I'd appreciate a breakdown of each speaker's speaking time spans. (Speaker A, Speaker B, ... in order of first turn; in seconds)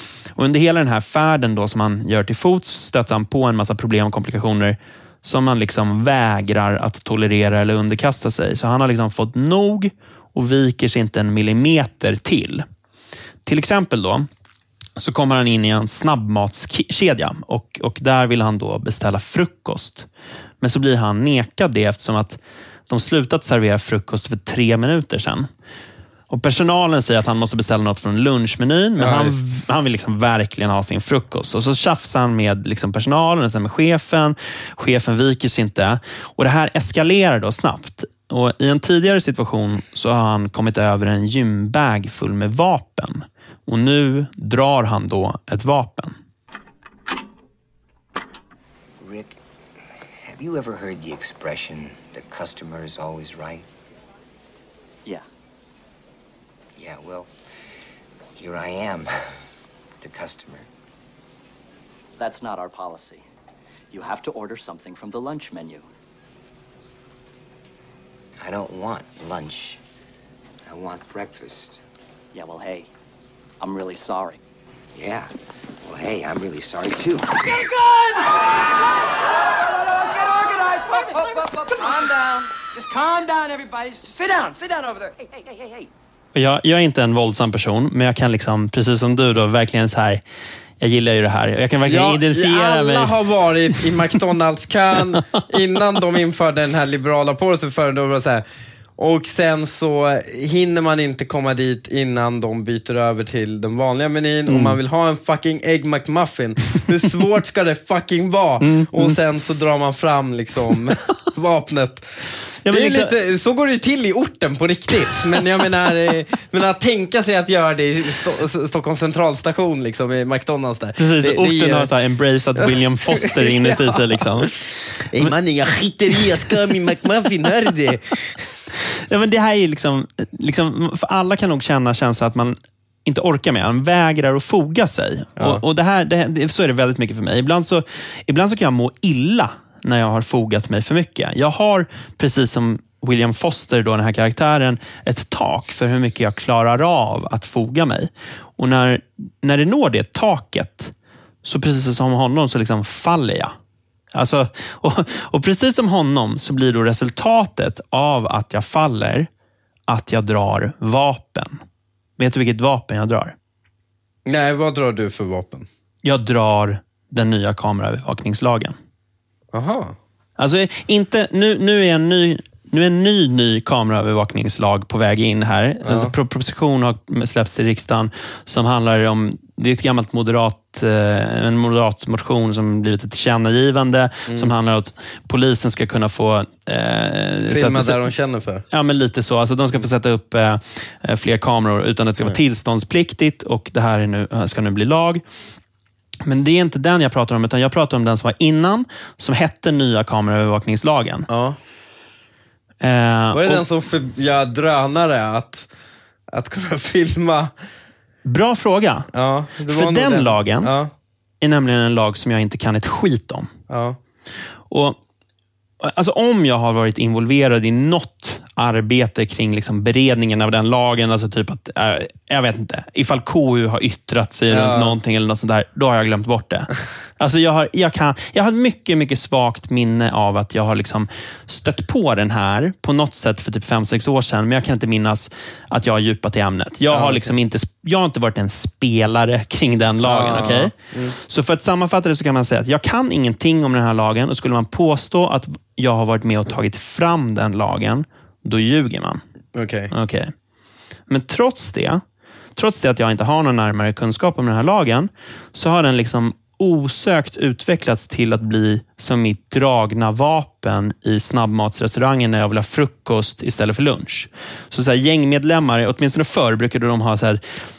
Speaker A: 0.3-12.6, 13.4-14.3, 15.0-20.1, 20.6-22.4, 22.9-25.5, 26.3-46.1, 86.3-90.2, 90.8-93.1, 104.5-104.8, 108.6-109.2, 112.6-113.1, 121.0-124.5, 129.1-150.9, 151.4-153.5, 154.1-159.3, 159.9-161.6, 162.2-163.3, 166.0-168.8, 170.4-188.1, 188.7-195.2, 196.2-201.3, 202.8-203.6, 208.2-209.1, 209.7-210.7, 211.4-213.5, 214.7-215.0, 215.8-249.2, 249.9-250.3, 251.1-252.0, 252.6-267.4
Speaker B: 29.0-29.3, 91.8-98.4, 99.0-112.1, 112.7-121.9, 122.6-124.5, 125.0-128.4, 135.4-135.6, 164.2-165.7, 169.5-169.9, 175.8-176.1, 184.3-184.5, 187.5-188.6, 201.3-201.6, 203.3-205.7, 206.3-207.5, 209.1-210.9, 213.7-214.0, 224.5-224.9, 236.9-237.3, 240.0-241.2, 249.5-249.9
Speaker C: 49.0-49.4, 50.2-53.6, 56.8-57.3, 58.4-59.1, 60.0-60.7, 68.4-69.8, 70.6-71.8, 74.9-75.3, 75.8-77.9
Speaker D: 62.2-63.2, 63.9-65.8, 72.3-72.9, 73.6-74.4
Speaker E: 79.4-85.7